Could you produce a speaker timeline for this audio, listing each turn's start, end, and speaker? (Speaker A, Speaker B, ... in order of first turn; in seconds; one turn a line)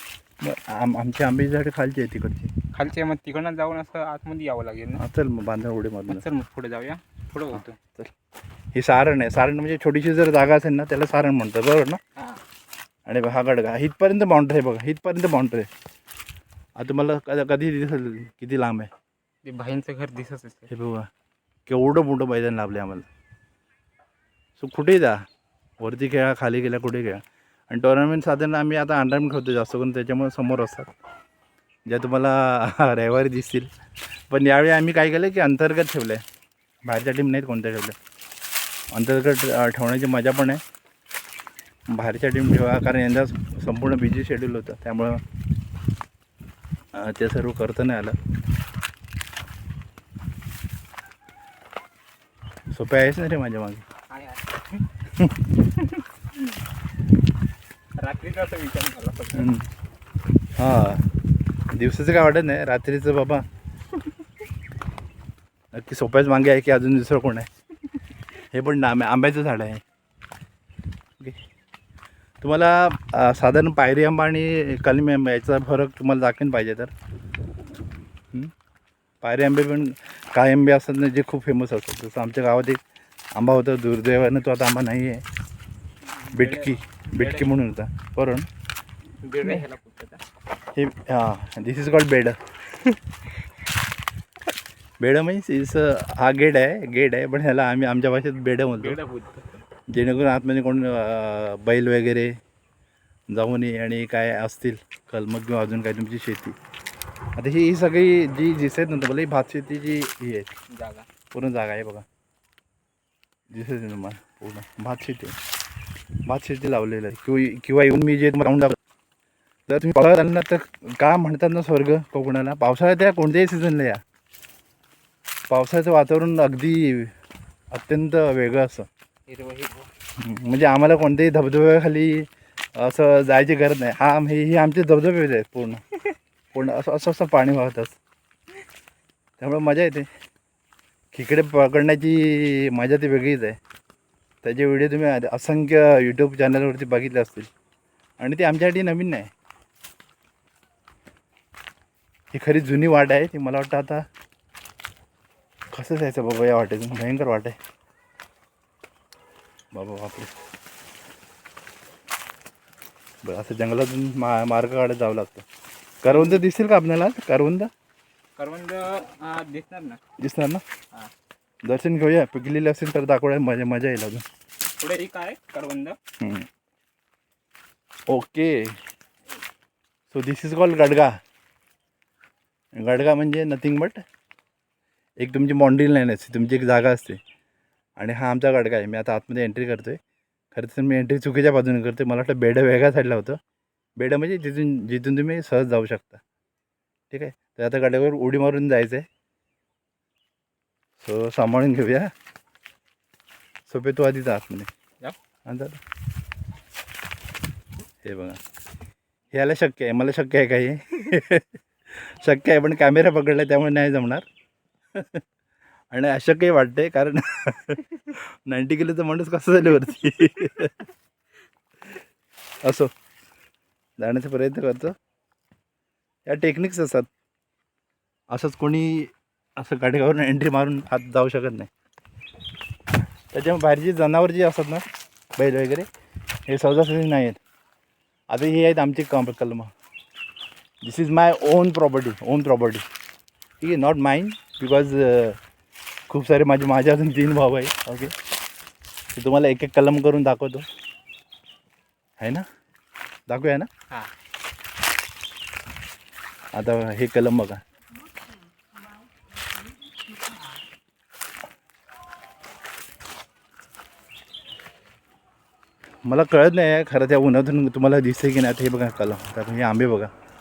Speaker A: 0.4-2.5
Speaker B: 2.7-5.0
Speaker A: 5.0-6.2
Speaker B: 6.1-7.8
Speaker A: 7.5-8.1
Speaker A: 8.7-12.0
Speaker B: 12.2-12.4
Speaker A: 13.1-15.7
Speaker A: 16.8-18.9
Speaker B: 19.4-20.7
Speaker A: 20.7-21.1
Speaker A: 21.7-23.1
Speaker A: 24.6-25.2
Speaker A: 25.8-30.9
Speaker A: 31.9-33.7
Speaker A: 34.3-36.2
Speaker A: 36.9-38.0
Speaker A: 38.9-40.6
Speaker A: 41.9-45.2
Speaker A: 46.9-48.1
Speaker A: 52.7-53.8
Speaker B: 54.1-54.8
Speaker B: 55.8-56.0
Speaker B: 58.0-59.5
Speaker A: 59.3-59.7
Speaker A: 60.6-61.0
Speaker A: 61.7-63.4
Speaker A: 65.7-67.5
Speaker A: 68.5-69.8
Speaker A: 72.4-76.9
Speaker A: 79.2-82.8
Speaker A: 83.3-85.2
Speaker B: 86.2-87.5
Speaker A: 86.3-88.5
Speaker B: 89.2-90.2
Speaker A: 90.7-92.3
Speaker A: 95.0-99.0
Speaker B: 98.8-99.6
Speaker A: 99.9-102.3
Speaker A: 103.3-106.5
Speaker A: 107.3-110.5
Speaker B: 110.7-111.1
Speaker A: 111.3-112.0
Speaker A: 113.5-115.3
Speaker A: 116.2-118.8
Speaker A: 119.7-124.0
Speaker A: 125.5-127.1
Speaker A: 127.7-128.9
Speaker B: 129.3-129.9
Speaker A: 130.2-135.8
Speaker A: 136.5-138.0
Speaker A: 139.4-140.1
Speaker A: 141.1-143.6
Speaker A: 144.4-147.5
Speaker A: 148.2-149.3
Speaker A: 152.3-154.0
Speaker A: 155.7-157.6
Speaker A: 159.7-160.3
Speaker A: 163.2-165.4
Speaker A: 166.0-167.7
Speaker B: 166.0-166.4
Speaker B: 168.4-170.0
Speaker A: 170.2-170.6
Speaker A: 171.6-174.2
Speaker B: 174.8-176.0
Speaker A: 176.2-176.5
Speaker A: 178.1-178.8
Speaker A: 180.1-181.2
Speaker A: 182.8-184.0
Speaker A: 185.2-187.2
Speaker A: 188.0-190.0
Speaker A: 190.5-193.4
Speaker A: 194.0-196.2
Speaker A: 197.1-199.0
Speaker A: 201.0-202.1
Speaker A: 203.7-204.7
Speaker A: 205.4-205.8
Speaker A: 208.0-208.4
Speaker A: 209.3-214.2
Speaker A: 214.9-215.2
Speaker A: 215.9-220.8
Speaker A: 222.6-222.9
Speaker A: 224.0-224.9
Speaker A: 226.3-227.1
Speaker A: 228.3-231.7
Speaker A: 233.3-234.8
Speaker A: 235.4-235.9
Speaker A: 236.5-237.4
Speaker A: 238.3-239.7
Speaker A: 240.8-242.8
Speaker A: 243.6-245.4
Speaker A: 246.1-248.1
Speaker A: 249.1-250.7
Speaker A: 252.2-252.4
Speaker A: 253.3-253.7
Speaker A: 256.5-257.6
Speaker A: 266.1-270.1